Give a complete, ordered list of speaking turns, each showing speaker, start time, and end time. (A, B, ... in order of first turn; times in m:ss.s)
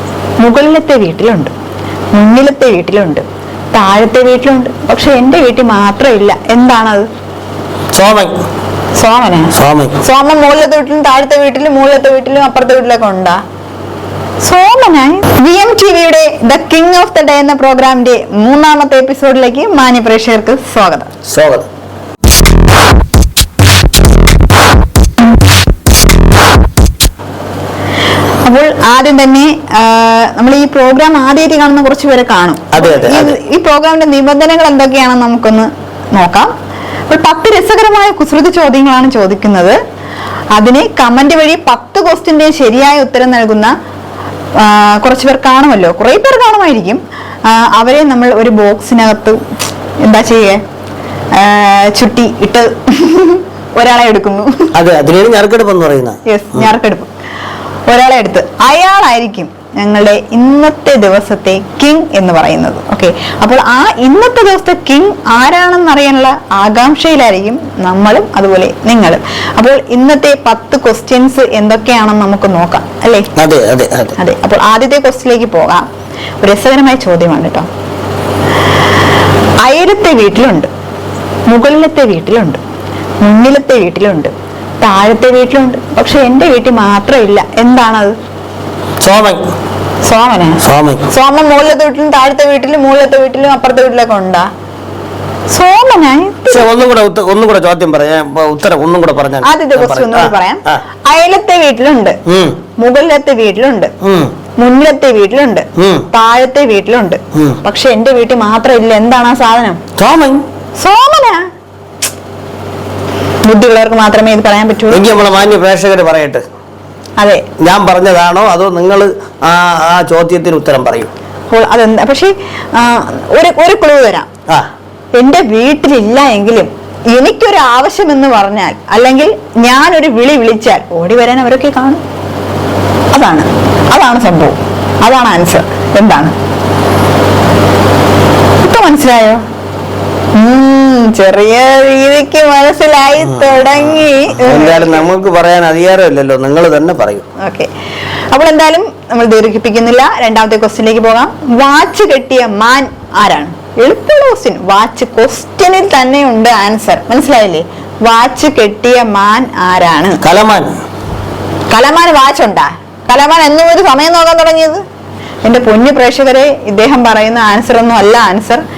0:00.4-0:01.5 A
0:02.1-0:07.1 A
0:07.9-0:08.5 B
0:09.0-0:13.4 A
0:09.5-0:10.0 B
0:14.4-0:21.1 A
0:21.3-0:21.7 B
0:28.4-0:36.5 A
0:32.7-0:33.4 B
0:37.1-0:39.8 A
0:40.5-0:43.7 A
0:44.6-0:49.4 A
0:50.0-0:50.6 A
0:51.3-0:54.7 A
0:54.7-0:56.7 B
0:56.3-0:57.1 A
0:57.9-1:13.3 A
1:13.4-1:14.2 B
1:14.2-1:15.8 A
1:16.4-1:17.7 A
1:19.6-1:20.7 A
1:21.5-1:22.6 A
1:23.2-1:28.2 A
1:29.0-1:29.5 B
1:30.0-1:34.5 A
1:30.6-1:31.1 B
1:35.5-1:36.7 A
1:36.5-1:40.8 B
1:39.4-1:42.2 A
1:42.2-1:42.6 B
1:42.8-1:43.9 A
1:44.0-1:44.3 B
1:44.6-1:49.8 A
1:45.8-1:46.1 B
1:47.3-1:47.6 B
1:50.0-1:50.4 B
1:50.8-1:51.5 A
1:53.4-1:55.0 A
1:54.9-1:56.4 B
1:57.2-1:57.4 A
1:57.6-2:01.1 B
2:01.5-2:04.3 A
2:05.1-2:12.0 A
2:13.1-2:16.3 A
2:18.6-2:19.4 A
2:20.3-2:25.0 A
2:24.3-2:27.3 B
2:27.4-2:27.7 A
2:28.3-2:40.2 A
2:40.2-2:40.8 B
2:41.7-2:44.8 A
2:45.4-2:48.6 A